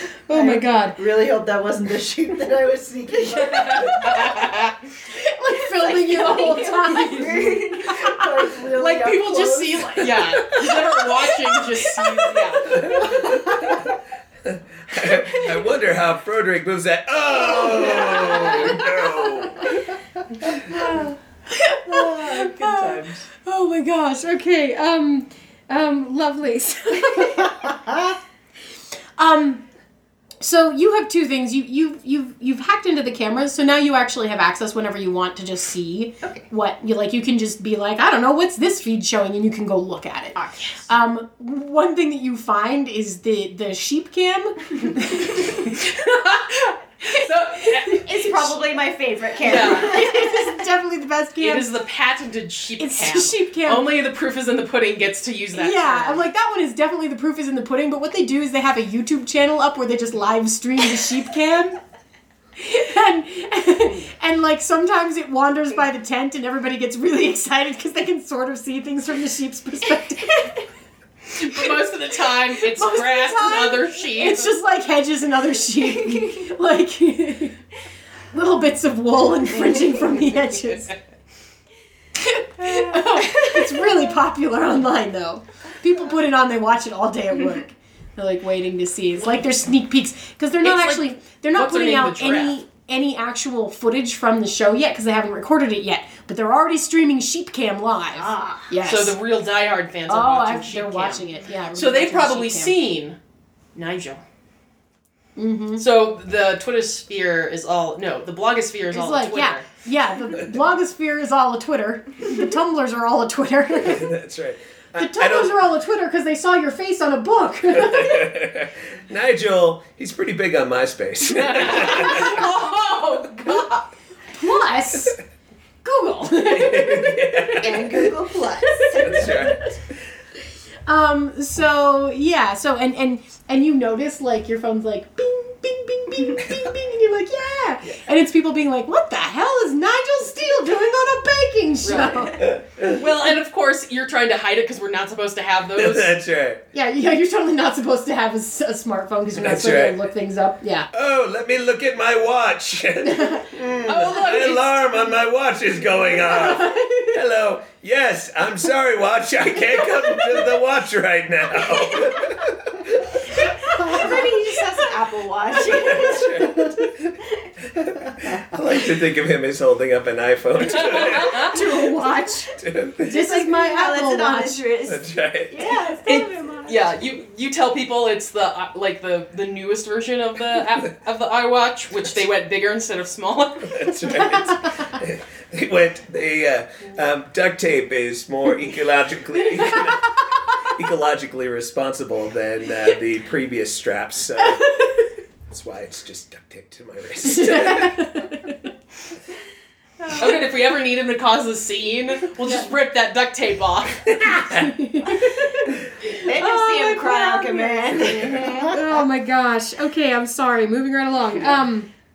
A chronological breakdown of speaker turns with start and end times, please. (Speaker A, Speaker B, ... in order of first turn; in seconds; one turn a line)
Speaker A: 0.3-1.0
Speaker B: 0.3-4.4
Speaker C: 3.8-4.7
Speaker A: 3.9-4.3
Speaker A: 5.1-8.3
Speaker D: 6.1-7.6
Speaker B: 6.2-10.3
Speaker C: 8.8-12.9
Speaker A: 11.9-13.2
Speaker E: 12.7-13.9
Speaker B: 12.9-13.7
Speaker E: 14.4-19.7
Speaker A: 17.5-19.8
Speaker A: 20.5-27.9
Speaker B: 21.9-23.2
Speaker A: 29.2-29.6
Speaker A: 30.4-45.8
Speaker C: 45.4-48.3
Speaker A: 47.7-48.5
Speaker B: 48.1-50.3
Speaker D: 48.6-50.3
Speaker C: 49.4-50.0
Speaker A: 49.5-51.7
Speaker C: 51.4-56.3
Speaker A: 52.8-53.9
Speaker A: 55.5-61.8
Speaker A: 62.6-70.5
Speaker C: 71.3-74.5
Speaker A: 72.6-77.6
Speaker A: 78.3-80.9
Speaker A: 82.2-99.2
Speaker D: 82.7-84.0
Speaker C: 90.6-92.6
Speaker D: 98.1-98.7
Speaker C: 98.8-103.2
Speaker A: 100.1-102.8
Speaker C: 103.7-104.2
Speaker A: 105.4-105.8
Speaker C: 105.8-109.7
Speaker A: 108.9-114.1
Speaker E: 113.8-115.6
Speaker A: 115.0-118.3
Speaker E: 117.7-122.5
Speaker C: 121.3-123.8
Speaker A: 124.3-125.2
Speaker A: 125.8-128.0
Speaker E: 126.4-127.8
Speaker B: 127.6-129.3
Speaker D: 127.9-128.4
Speaker A: 128.8-129.6
Speaker E: 128.9-129.7
Speaker A: 130.8-142.5
Speaker C: 141.8-142.3
Speaker E: 142.3-143.0
Speaker C: 142.9-146.1
Speaker E: 145.8-146.6
Speaker A: 146.7-150.9
Speaker E: 149.3-150.0
Speaker E: 150.9-163.2
Speaker A: 153.0-153.4
Speaker C: 153.8-155.1
Speaker A: 156.2-157.1
Speaker D: 163.7-166.8
Speaker A: 163.8-164.1
Speaker E: 165.6-167.1
Speaker E: 167.7-171.6
Speaker C: 170.6-171.6
Speaker A: 171.2-174.7
Speaker E: 172.5-173.2
Speaker D: 173.1-176.9
Speaker E: 174.8-175.5
Speaker C: 176.0-183.9
Speaker E: 183.6-194.7
Speaker A: 189.5-189.9
Speaker E: 195.5-198.1
Speaker A: 197.2-198.7
Speaker A: 200.0-200.3
Speaker C: 200.1-204.2
Speaker A: 202.4-202.7
Speaker A: 204.2-211.9
Speaker E: 204.3-204.7
Speaker D: 206.2-208.8
Speaker B: 208.0-208.6